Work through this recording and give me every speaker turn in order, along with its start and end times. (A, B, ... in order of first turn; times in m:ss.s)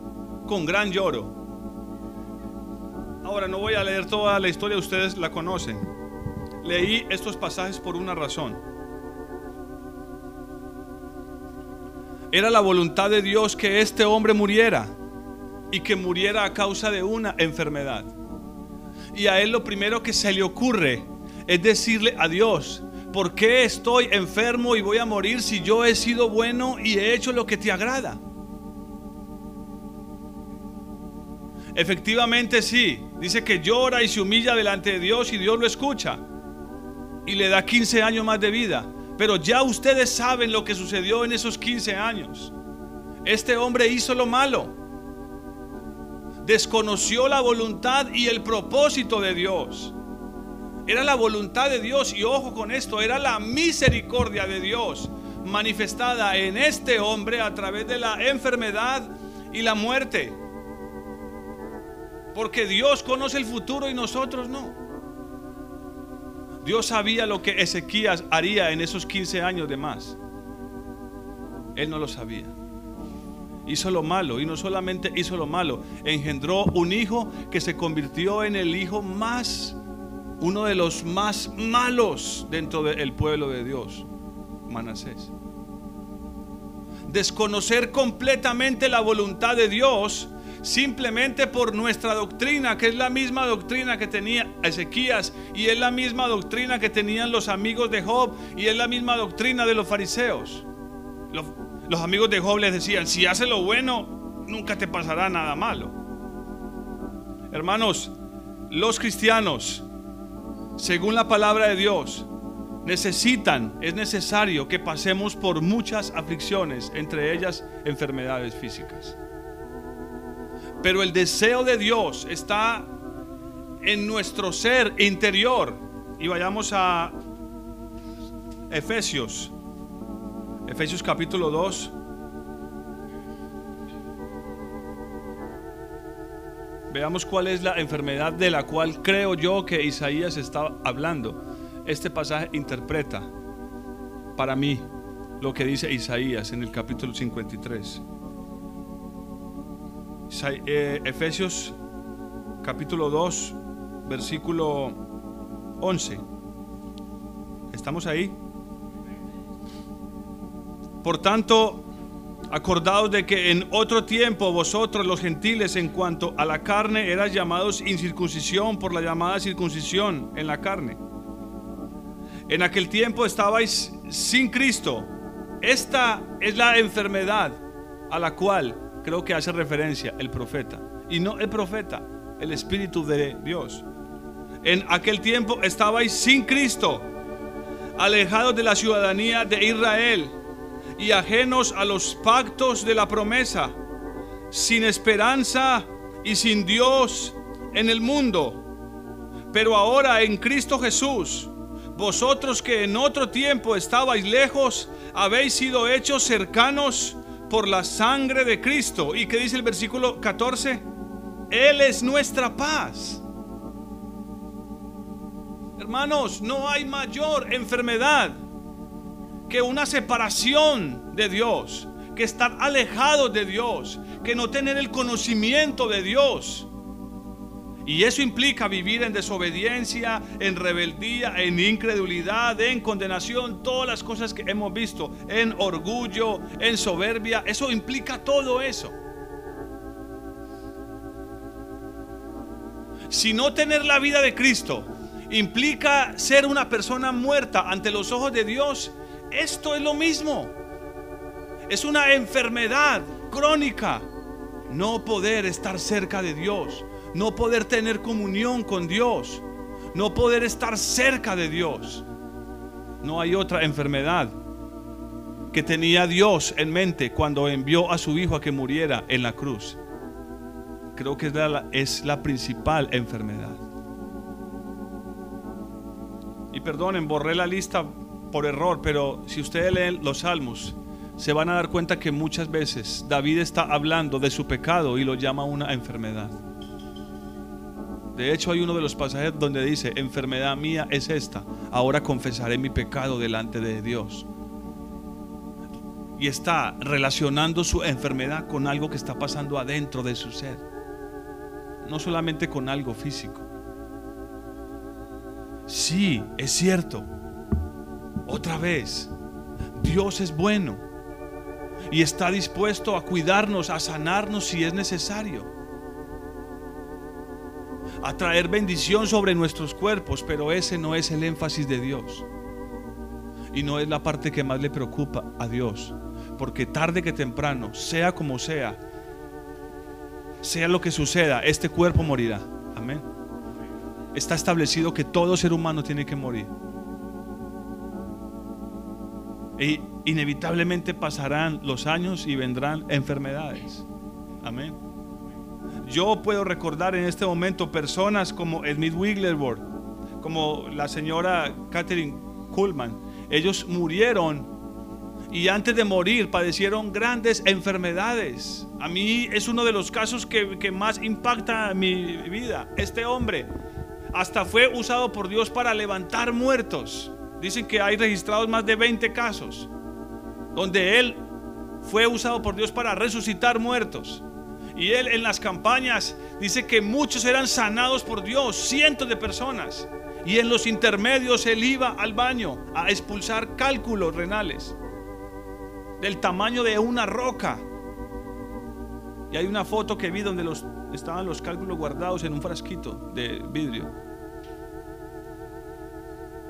0:00.4-0:01.4 A
0:03.2-0:05.9 A
0:06.6-0:08.6 A
0:12.3-0:15.0 A
0:15.7-0:18.1 A
0:19.1-0:28.2 A
0:31.7-0:36.2 A
0:37.3-0:42.5 A
0:43.2-0:44.8 A
0:46.4-0:50.0 A
0:50.9-1:00.4 A
1:02.3-1:04.8 A
1:06.6-1:10.2 A
1:11.8-1:12.6 A
1:13.7-1:19.8 A
1:20.4-1:24.1 A
1:24.7-1:25.3 A
1:27.1-1:40.7 A
1:41.3-1:46.0 A
1:47.5-1:48.1 A
1:48.7-1:49.9 A
1:50.8-1:52.3 A
1:52.8-1:59.2 A
2:00.8-2:02.9 A
2:03.8-2:07.2 A
2:08.7-2:09.5 A
2:10.6-2:11.9 A
2:16.9-2:23.3 A
2:24.4-2:24.9 A
2:25.4-2:28.0 A
2:30.3-2:31.8 A
2:32.6-2:35.0 A
2:35.8-2:36.2 A
2:37.7-2:38.4 A
2:41.0-2:41.9 A
2:42.5-2:51.0 A
2:52.5-3:03.9 A
3:04.6-3:07.1 A
3:08.0-3:10.4 A
3:11.0-3:13.8 A
3:14.5-3:18.6 A
3:19.5-3:30.9 A
3:31.5-3:33.2 A
3:35.8-3:38.4 A
3:39.5-3:46.7 A
3:47.8-3:59.0 A
4:03.1-4:10.6 A
4:11.7-4:14.1 A
4:14.7-4:22.1 A
4:23.0-4:24.4 A
4:25.5-4:29.8 A
4:31.0-4:33.6 A
4:36.5-4:46.4 A
4:48.1-4:54.3 A
4:56.2-5:00.6 A
5:01.8-5:03.5 A
5:05.7-5:07.1 A
5:08.3-5:09.1 A
5:09.8-5:10.8 A
5:11.9-5:15.5 A
5:18.0-5:22.3 A
5:23.5-5:28.8 A
5:30.4-5:33.1 A
5:34.1-5:36.5 A
5:39.6-5:43.9 A
5:44.4-5:44.8 A
5:45.8-5:49.7 A
5:50.2-5:54.5 A
5:55.3-6:03.5 A
6:04.1-6:09.7 A
6:10.5-6:11.2 A
6:11.8-6:24.8 A
6:26.0-6:27.6 A
6:29.3-6:33.9 A